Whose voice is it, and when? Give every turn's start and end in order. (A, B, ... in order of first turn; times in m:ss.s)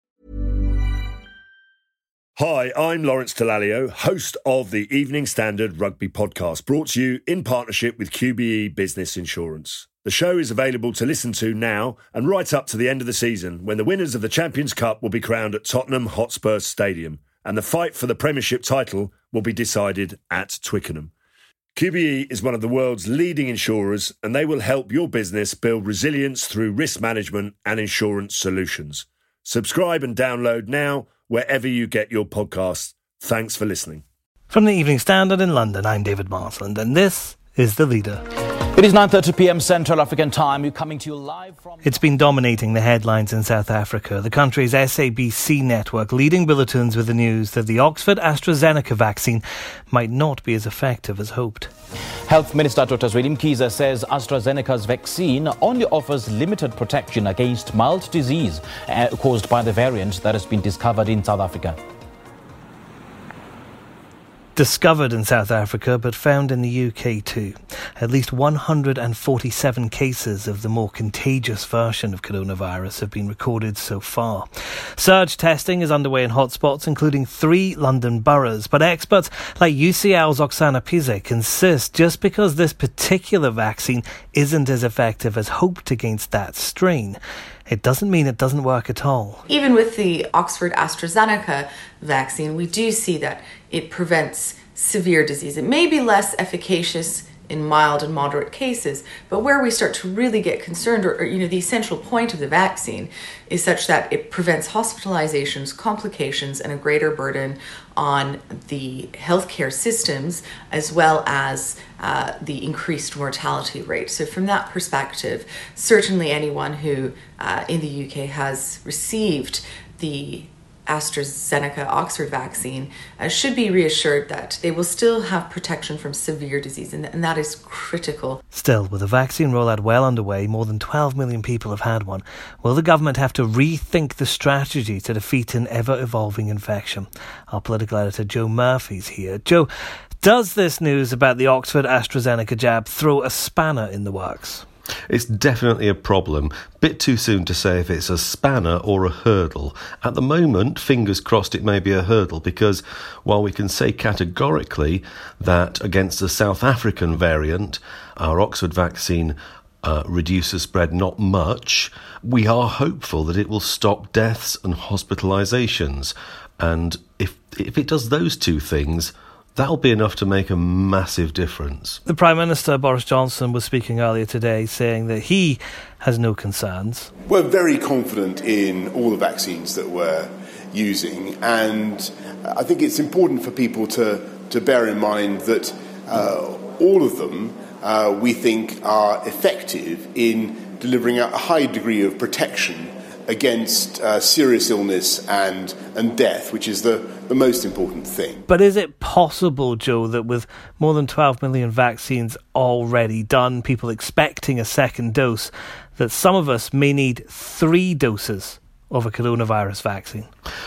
0:02.4-0:21.1 A
0:21.8-0:34.0 A
0:34.5-0:38.2 B
0:38.7-0:41.8 C
0:41.8-0:51.7 B
0:52.3-1:01.8 C
1:04.6-1:29.4 B
1:29.5-2:08.4 D
2:08.5-2:19.7 B
2:20.2-2:24.6 B
2:25.1-2:52.0 E
2:52.0-2:57.1 B
2:57.3-3:18.4 F
3:18.5-3:30.3 B